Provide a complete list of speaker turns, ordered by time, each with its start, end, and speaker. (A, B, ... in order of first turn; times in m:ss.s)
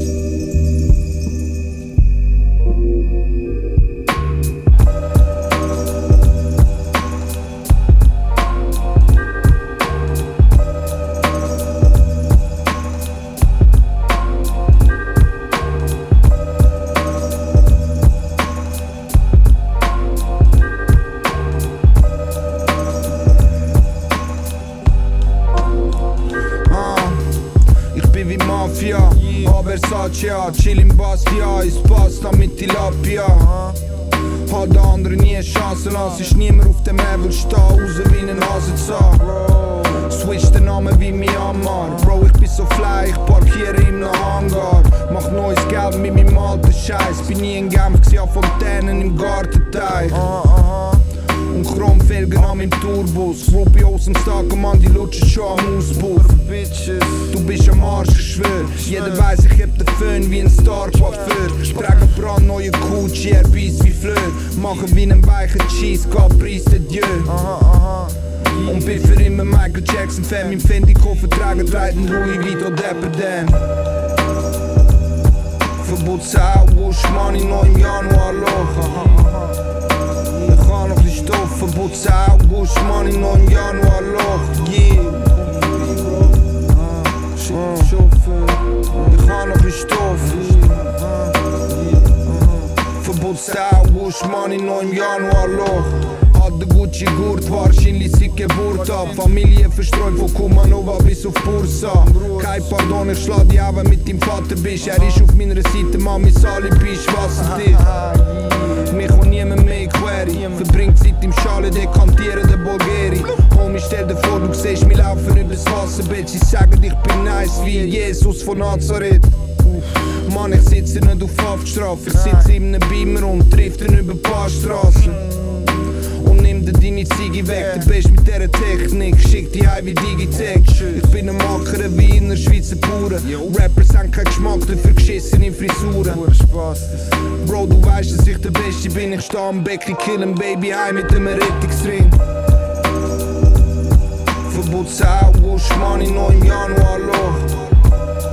0:26.7-0:27.2 A
0:27.9-0:33.7 A
0:34.5-0:50.4 A
0:51.5-0:56.6 A
0:57.2-1:07.5 A
1:08.6-1:13.6 A
1:15.8-1:19.3 A
1:20.4-1:25.4 A
1:27.3-1:31.0 A
1:32.8-1:47.9 A
1:48.8-2:05.2 A
2:06.2-2:16.3 A
2:17.4-2:22.2 A
2:24.4-2:27.5 A